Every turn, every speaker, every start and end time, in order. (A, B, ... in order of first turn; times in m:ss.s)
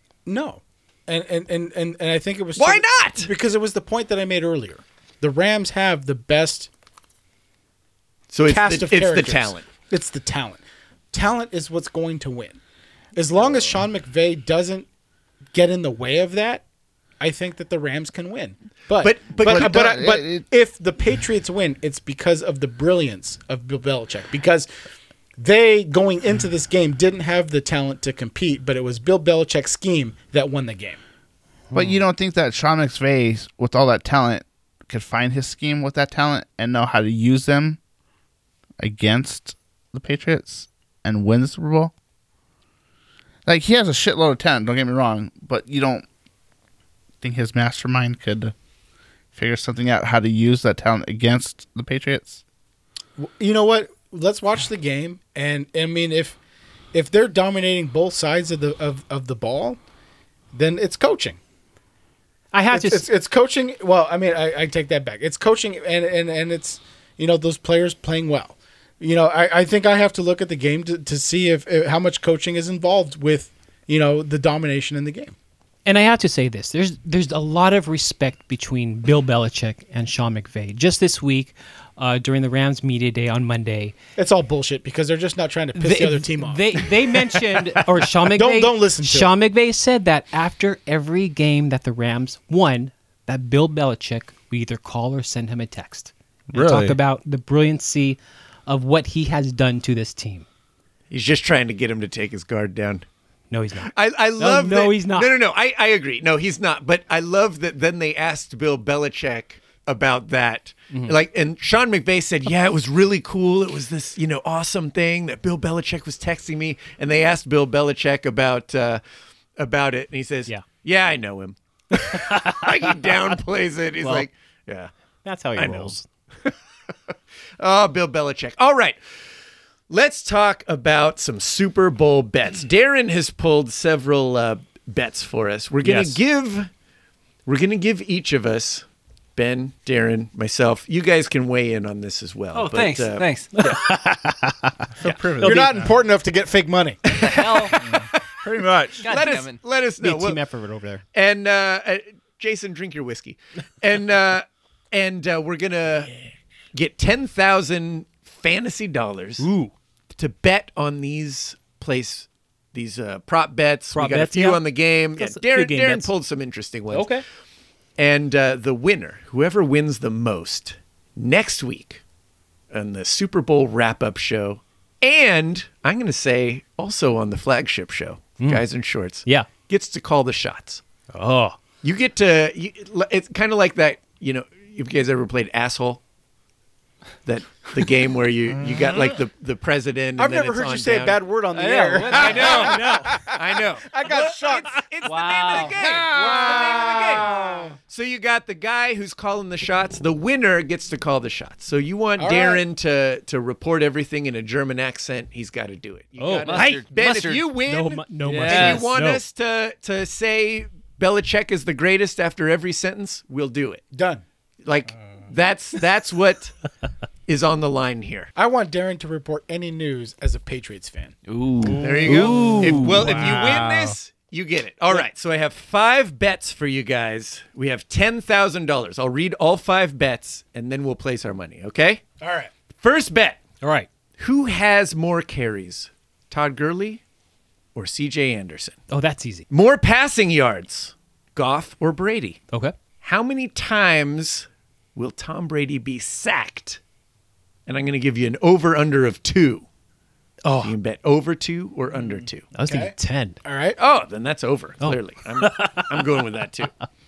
0:00.2-0:06.7 A
0:02.6-0:03.3 B
0:08.3-0:09.7 B
0:08.5-0:12.6 A
0:13.1-0:14.9 A
0:15.5-0:16.6 A
0:17.2-0:24.7 A
0:19.0-0:19.9 B
0:19.4-0:20.5 C
0:25.4-0:31.0 A
0:31.7-0:32.0 D
0:31.7-0:37.8 C
0:38.8-0:41.9 C
0:43.4-0:46.0 C
0:47.2-0:48.5 C
0:49.3-0:52.4 C
0:53.2-0:56.4 A
0:56.9-0:59.8 A
1:00.5-1:01.4 A
1:02.5-1:03.1 D
1:02.7-1:15.3 A
1:15.8-1:23.9 D
1:24.2-1:29.3 A
1:25.8-1:40.4 D
1:36.5-1:37.0 C
1:41.1-1:43.0 B
1:43.5-1:45.3 D
1:43.9-1:59.0 B
1:50.9-1:51.2 D
1:59.6-2:04.9 B
2:01.9-2:03.3 D
2:04.0-2:04.3 D
2:05.2-2:06.0 D
2:05.6-2:06.5 B
2:07.6-2:09.0 B
2:09.9-2:16.7 B
2:15.8-2:16.2 D
2:17.4-2:18.8 B
2:19.4-2:23.2 B
2:22.5-2:23.8 E
2:23.5-2:24.7 D
2:25.0-2:25.9 C
2:25.4-2:25.7 D
2:25.4-2:27.3 A
2:27.2-2:27.8 B
2:27.2-2:27.8 E
2:27.8-2:29.1 C
2:29.0-2:29.6 E
2:29.0-2:30.4 B
2:30.0-2:31.0 D
2:31.1-2:36.1 B
2:36.7-2:39.4 B
2:39.4-2:39.7 D
2:40.2-2:47.1 B
2:43.9-2:44.6 D
2:45.2-2:46.1 D
2:46.9-2:47.2 D
2:48.0-2:52.0 B
2:52.7-3:00.8 B
2:58.4-2:58.6 D
3:01.1-3:01.6 D
3:01.8-3:06.0 B
3:07.2-3:11.2 B
3:10.2-3:14.8 A
3:11.5-3:12.8 E
3:12.1-3:17.3 B
3:12.1-3:13.2 D
3:15.0-3:16.0 E
3:15.7-3:17.8 A
3:17.9-3:33.8 B
3:22.2-3:22.6 A
3:26.2-3:26.8 D
3:26.4-3:27.4 E
3:27.6-3:29.2 D
3:28.2-3:28.9 E
3:33.9-3:34.2 A
3:34.6-3:36.6 B
3:37.3-3:38.3 B
3:38.4-3:41.1 A
3:41.2-3:43.4 E
3:41.6-3:43.4 D
3:41.7-3:52.0 B
3:42.8-3:44.0 C
3:52.2-3:52.5 A
3:52.8-3:53.4 B
3:53.6-3:53.9 D
3:54.2-3:57.0 B
3:57.7-3:58.8 B
3:58.9-3:59.4 D
3:59.5-4:02.4 B
4:03.0-4:06.8 B
4:07.7-4:09.6 B
4:10.4-4:10.7 D
4:10.6-4:12.5 B
4:12.5-4:13.4 D
4:12.7-4:13.8 A
4:13.8-4:16.7 B
4:14.8-4:15.9 D